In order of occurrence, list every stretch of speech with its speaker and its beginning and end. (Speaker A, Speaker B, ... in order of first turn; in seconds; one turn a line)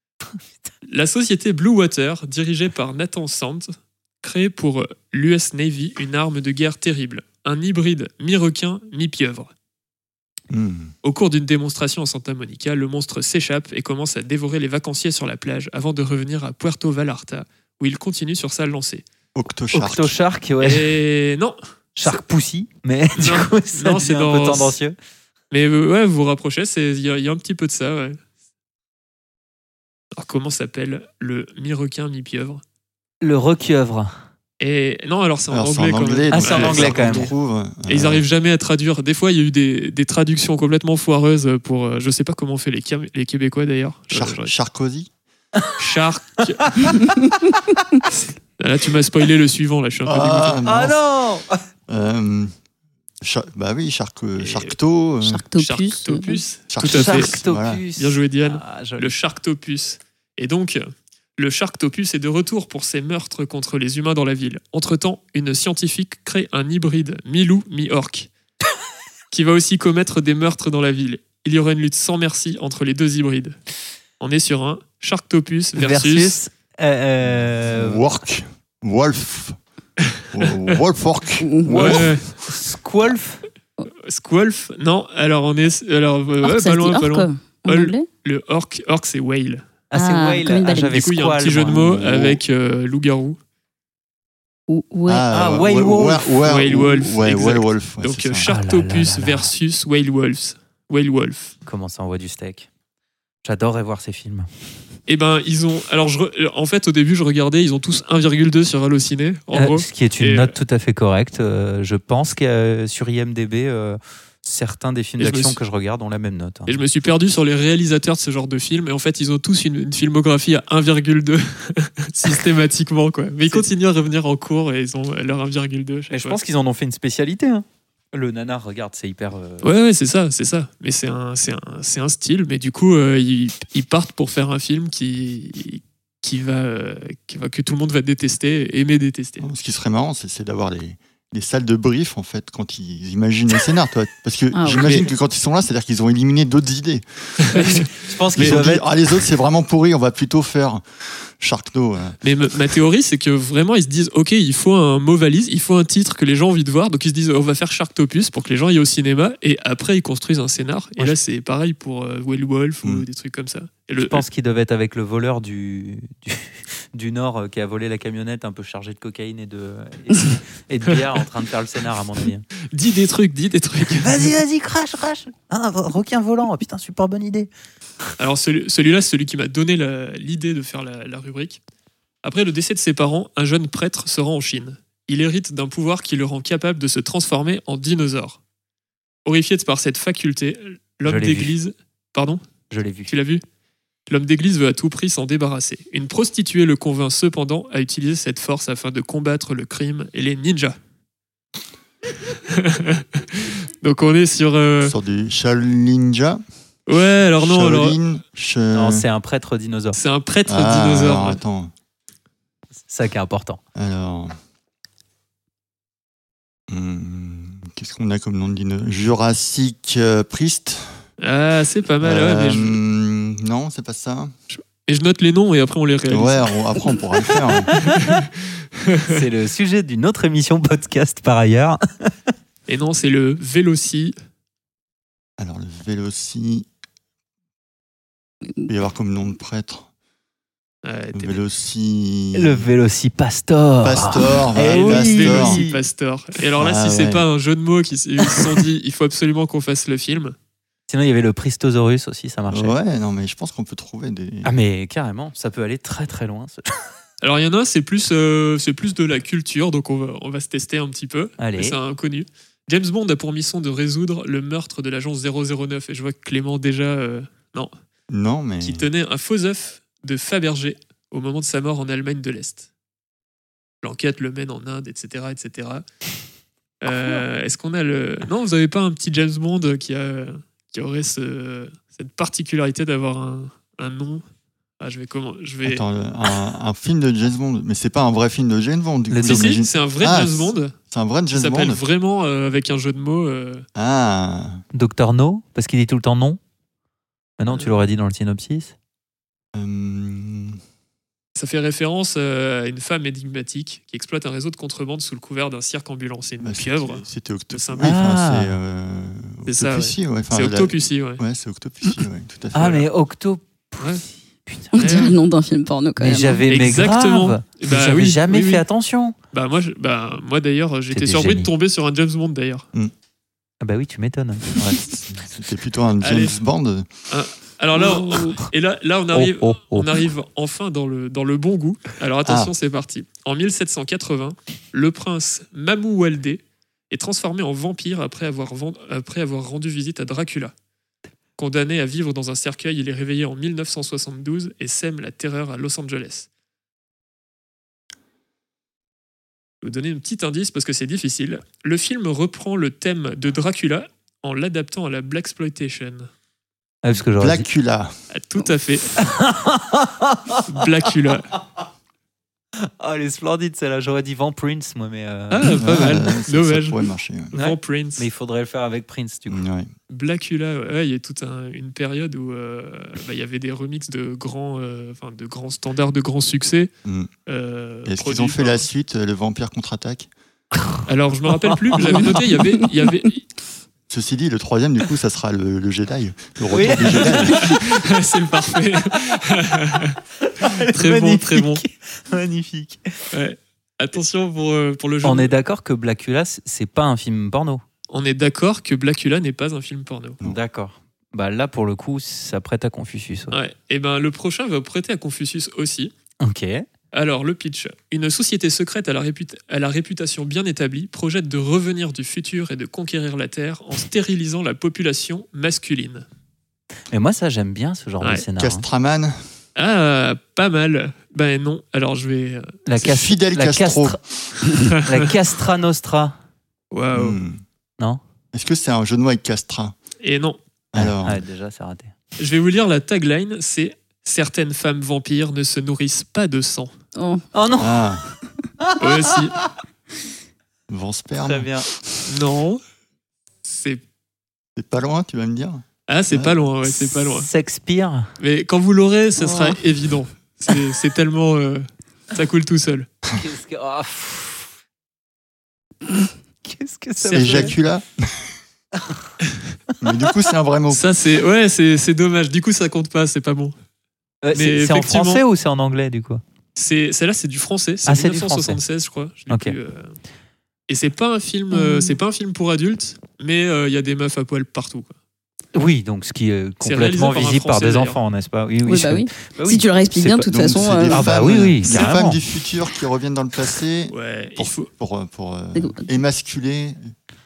Speaker A: 0.9-9.5
Speaker B: 10.5-10.9
Speaker A: 11.0-19.0
Speaker B: 19.3-20.1
Speaker C: 19.7-20.9
Speaker A: 20.6-22.2
Speaker C: 21.9-24.9
Speaker A: 23.2-24.8
Speaker A: 25.5-28.2
Speaker A: 30.1-32.6
Speaker C: 33.2-34.1
Speaker A: 34.6-37.3
Speaker B: 35.5-38.2
Speaker C: 36.3-37.3
Speaker A: 37.9-44.5
Speaker B: 44.1-45.1
Speaker A: 45.8-46.7
Speaker C: 46.7-46.9
Speaker A: 48.1-50.6
Speaker B: 50.0-51.0
Speaker C: 50.6-51.6
Speaker B: 51.9-52.5
Speaker B: 53.2-55.4
Speaker A: 54.4-54.7
Speaker D: 55.2-56.4
Speaker A: 55.5-57.4
Speaker B: 56.7-57.8
Speaker C: 56.8-59.1
Speaker A: 58.0-60.8
Speaker A: 61.4-68.3
Speaker A: 69.3-73.5
Speaker A: 74.2-76.4
Speaker C: 75.8-78.0
Speaker B: 77.2-79.6
Speaker B: 80.3-82.2
Speaker D: 81.4-81.9
Speaker C: 81.7-83.4
Speaker A: 81.8-82.2
Speaker A: 84.0-89.7
Speaker D: 86.4-88.1
Speaker C: 89.9-92.4
Speaker D: 89.9-90.9
Speaker A: 90.9-93.4
Speaker D: 94.7-95.2
Speaker B: 95.1-98.5
Speaker C: 95.3-96.4
Speaker A: 96.4-101.5
Speaker C: 98.4-99.5
Speaker C: 101.7-102.7
Speaker C: 103.4-104.5
Speaker A: 105.1-110.5
Speaker C: 109.5-116.8
Speaker A: 115.2-115.6
Speaker A: 116.7-126.4
Speaker C: 126.1-129.7
Speaker A: 129.6-139.5
Speaker B: 139.4-147.6
Speaker D: 144.5-145.0
Speaker A: 144.8-145.1
Speaker A: 147.4-147.8
Speaker C: 147.8-148.8
Speaker B: 148.3-152.2
Speaker A: 152.2-164.2
Speaker C: 163.9-172.4
Speaker A: 172.7-174.3
Speaker C: 173.8-177.5
Speaker A: 178.2-181.6
Speaker A: 182.2-188.4
Speaker A: 189.2-192.4
Speaker C: 191.0-191.5
Speaker C: 192.7-193.1
Speaker A: 193.1-193.4
Speaker A: 194.1-200.8
Speaker A: 202.5-204.9
Speaker B: 204.8-206.4
Speaker A: 206.9-207.9
Speaker B: 207.4-209.0
Speaker C: 208.7-210.0
Speaker A: 209.9-211.4
Speaker B: 210.5-211.7
Speaker C: 212.9-213.6
Speaker B: 213.8-214.3
Speaker B: 216.7-221.0
Speaker A: 221.2-222.8
Speaker B: 222.0-224.3
Speaker A: 224.5-226.5
Speaker B: 226.1-227.7
Speaker A: 227.8-228.2
Speaker A: 228.8-229.2
Speaker C: 229.1-232.1
Speaker A: 232.7-234.2
Speaker B: 235.4-236.7
Speaker B: 238.7-239.9
Speaker A: 240.8-241.4
Speaker B: 241.1-242.7
Speaker C: 242.3-245.8
Speaker B: 243.8-245.6
Speaker A: 244.6-250.3
Speaker B: 246.6-247.2
Speaker C: 248.2-248.6
Speaker C: 250.9-252.8
Speaker B: 252.5-254.5
Speaker C: 254.4-256.6
Speaker A: 257.2-267.7
Speaker C: 261.4-261.8
Speaker B: 268.1-268.9
Speaker A: 268.6-272.7
Speaker A: 273.8-275.8
Speaker A: 276.8-284.2
Speaker A: 284.8-285.8
Speaker B: 285.6-291.8
Speaker C: 289.1-289.6
Speaker A: 289.2-290.7
Speaker A: 291.3-293.6
Speaker B: 293.8-294.6
Speaker C: 294.7-296.4
Speaker C: 297.4-298.7
Speaker A: 297.5-297.7
Speaker B: 299.5-300.6
Speaker A: 301.3-308.0
Speaker B: 306.4-312.9
Speaker C: 307.8-308.5
Speaker A: 309.4-311.2
Speaker C: 312.5-315.0
Speaker D: 314.7-316.4
Speaker A: 314.8-315.2
Speaker C: 316.0-319.1
Speaker A: 316.5-318.6
Speaker A: 319.3-322.7
Speaker C: 320.9-321.5
Speaker C: 323.6-324.6
Speaker B: 324.6-326.9
Speaker A: 326.0-326.4
Speaker A: 327.1-340.5
Speaker D: 328.0-328.3
Speaker C: 329.1-330.0
Speaker B: 332.2-332.5
Speaker A: 341.4-346.3
Speaker A: 349.6-356.1
Speaker C: 356.8-357.4
Speaker B: 357.2-357.9
Speaker A: 358.1-359.0
Speaker C: 359.0-360.9
Speaker A: 360.5-361.3
Speaker C: 362.6-365.6
Speaker A: 365.3-366.8
Speaker B: 365.6-367.3
Speaker A: 367.3-368.1
Speaker C: 367.3-369.4
Speaker B: 369.3-369.7
Speaker A: 369.9-376.7
Speaker A: 377.3-378.6
Speaker B: 377.9-380.1
Speaker A: 380.9-383.2
Speaker C: 381.3-382.4
Speaker B: 383.9-387.6
Speaker C: 386.5-387.8
Speaker A: 387.1-390.0
Speaker C: 390.2-393.0
Speaker A: 390.7-391.6
Speaker A: 393.1-395.3
Speaker C: 395.0-397.6
Speaker A: 397.9-400.2
Speaker C: 400.2-403.4
Speaker A: 403.3-405.9
Speaker C: 406.2-406.6
Speaker A: 406.9-416.1
Speaker C: 416.9-418.6
Speaker B: 418.4-419.2
Speaker A: 419.6-422.5
Speaker C: 422.6-424.0
Speaker B: 422.8-424.0
Speaker A: 424.7-425.1
Speaker C: 424.8-426.1
Speaker A: 426.7-427.2
Speaker B: 426.9-427.4
Speaker B: 428.3-429.8
Speaker A: 430.0-430.4
Speaker B: 430.7-431.2
Speaker C: 430.8-431.9
Speaker A: 432.2-436.7
Speaker D: 436.9-437.2
Speaker C: 437.3-437.9
Speaker B: 437.6-438.0
Speaker C: 438.6-439.4
Speaker A: 438.8-439.3
Speaker B: 440.7-441.5
Speaker C: 441.2-441.7
Speaker A: 442.1-442.6
Speaker A: 443.4-443.8
Speaker B: 444.6-446.4
Speaker A: 445.9-447.3
Speaker C: 446.6-448.1
Speaker A: 448.2-452.9
Speaker C: 449.2-449.5
Speaker C: 453.1-454.5
Speaker C: 456.4-457.6
Speaker A: 457.0-457.5
Speaker B: 457.1-458.2
Speaker B: 459.8-460.9
Speaker A: 460.7-463.5
Speaker C: 464.2-466.2
Speaker A: 464.3-465.2
Speaker A: 466.6-469.9
Speaker C: 467.9-468.6
Speaker C: 469.3-469.6
Speaker A: 470.7-474.9
Speaker D: 471.5-471.9
Speaker C: 475.5-482.2
Speaker A: 476.6-478.0
Speaker D: 478.6-481.0
Speaker B: 480.3-486.9
Speaker A: 481.6-481.9
Speaker A: 483.9-484.7
Speaker D: 485.5-485.9